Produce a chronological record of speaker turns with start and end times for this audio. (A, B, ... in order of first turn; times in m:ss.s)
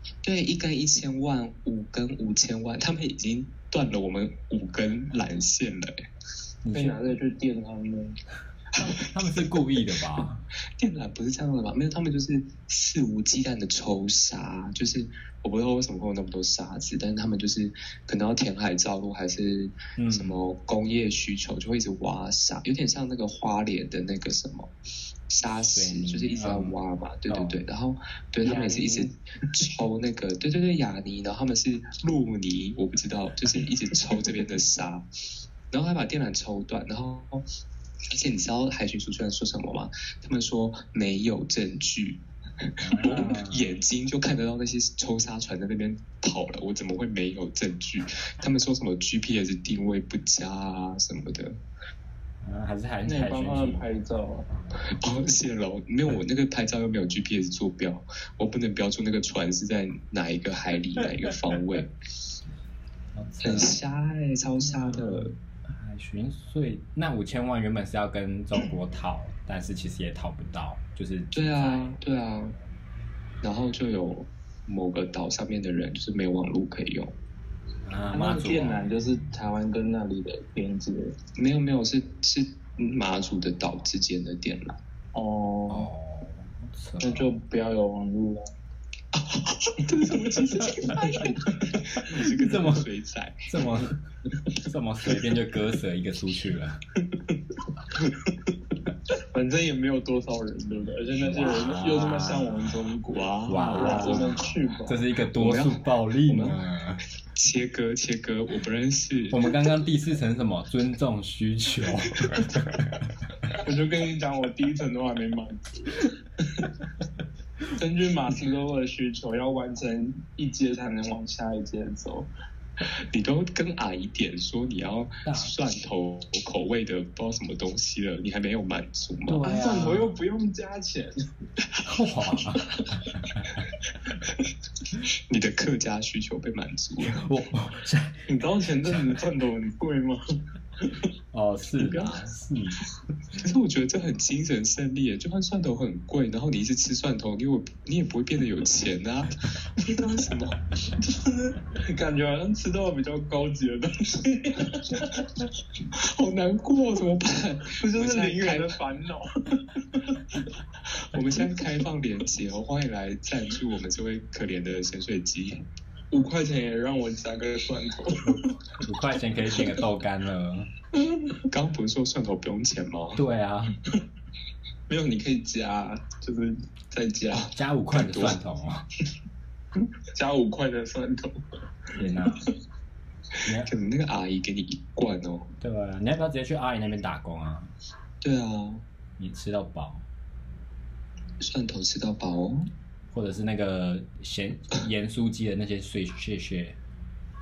0:00.2-0:05.9 A
0:06.6-0:07.1 B
0:06.7-0:08.2 C
0:08.8-0:10.4 B
0:10.8-0:24.7 A
0:20.0-0:20.4 B
0:25.3-0:35.0 A
0:25.5-0:26.8 B
0:27.3-0:27.6 B
0:28.4-0:29.1 C
0:35.7-0:37.4 A
0:38.1-0:51.6 A
0:42.8-0:43.7 B
0:52.4-0:53.9 B
0:53.0-0:54.5 C
0:55.0-1:01.9 A
1:03.1-1:03.8 B
1:03.4-1:05.3 A
1:04.8-1:12.0 B
1:11.3-1:12.6 A
1:13.4-1:17.1 A
1:17.8-1:19.0 B
1:18.1-1:21.1 C
1:21.4-1:24.8 A
1:25.1-1:25.9 C
1:25.7-1:27.4 B
1:27.0-1:28.5 C
1:29.1-1:33.5 A
1:32.0-1:32.9 B
1:33.5-1:34.0 B
1:34.6-1:36.8 B
1:37.9-1:38.5 C
1:39.3-1:45.0 C
1:41.2-1:42.9 B
1:43.1-1:44.5 A
1:43.5-1:47.0 B
1:45.3-1:46.6 A
1:47.3-1:49.4 A
1:49.3-1:53.0 B
1:53.6-1:56.7 C
1:57.7-2:02.3 C
2:03.1-2:09.4 A
2:05.2-2:05.5 B
2:09.3-2:10.1 B
2:09.4-2:11.1 C
2:11.8-2:13.6 B
2:15.3-2:17.2 A
2:17.0-2:18.2 B
2:18.3-2:20.2 C
2:21.3-2:22.8 B
2:21.8-2:22.2 A
2:23.4-2:30.6 A
2:31.0-2:35.2 C
2:35.9-2:38.7 A
2:37.8-2:40.2 C
2:40.9-2:45.6 A
2:46.1-2:48.5 C
2:48.2-2:50.7 B
2:51.1-2:51.4 C
2:51.5-2:53.2 A
2:53.2-2:53.8 B
2:54.9-2:57.5 C
2:57.4-2:58.8 B
2:57.9-2:58.4 A
3:00.1-3:01.4 C
3:01.9-3:02.4 B
3:03.4-3:03.7 B
3:03.6-3:05.5 A
3:05.6-3:07.7 B
3:08.2-3:08.8 A
3:09.2-3:10.0 B
3:11.4-3:12.7 A
3:13.1-3:16.8 B